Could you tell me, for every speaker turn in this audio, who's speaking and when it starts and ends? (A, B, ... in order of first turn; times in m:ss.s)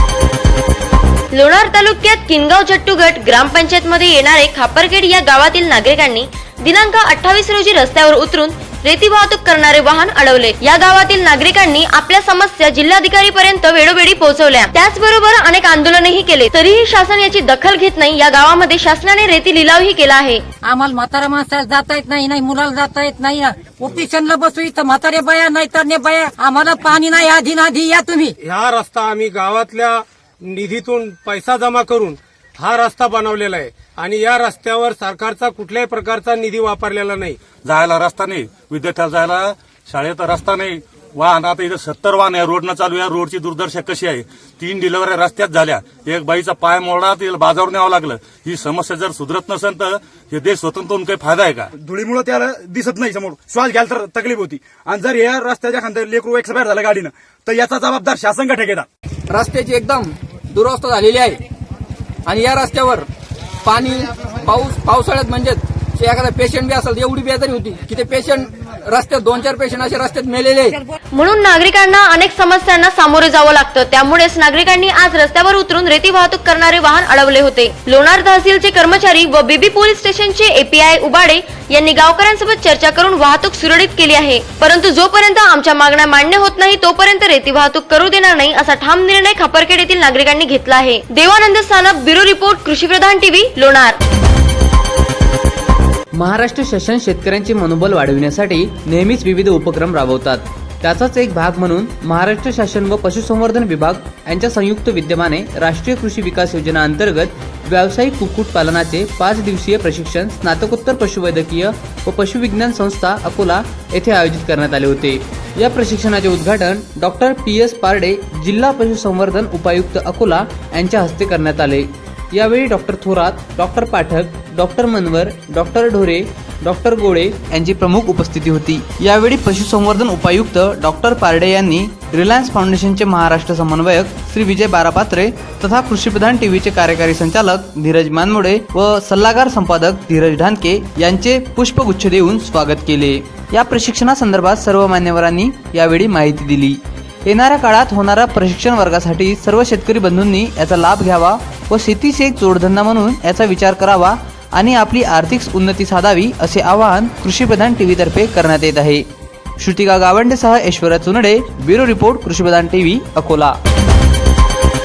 0:01.3-0:20.4 A
0:20.6-0:28.3 B
0:28.4-0:37.4 C
0:37.6-0:51.7 D
0:51.7-0:58.9 E
0:59.3-1:01.4 F
1:02.2-1:03.1 F
1:03.6-1:10.8 F
1:11.1-1:34.0 A
1:36.2-2:39.0 G
2:39.6-2:43.6 G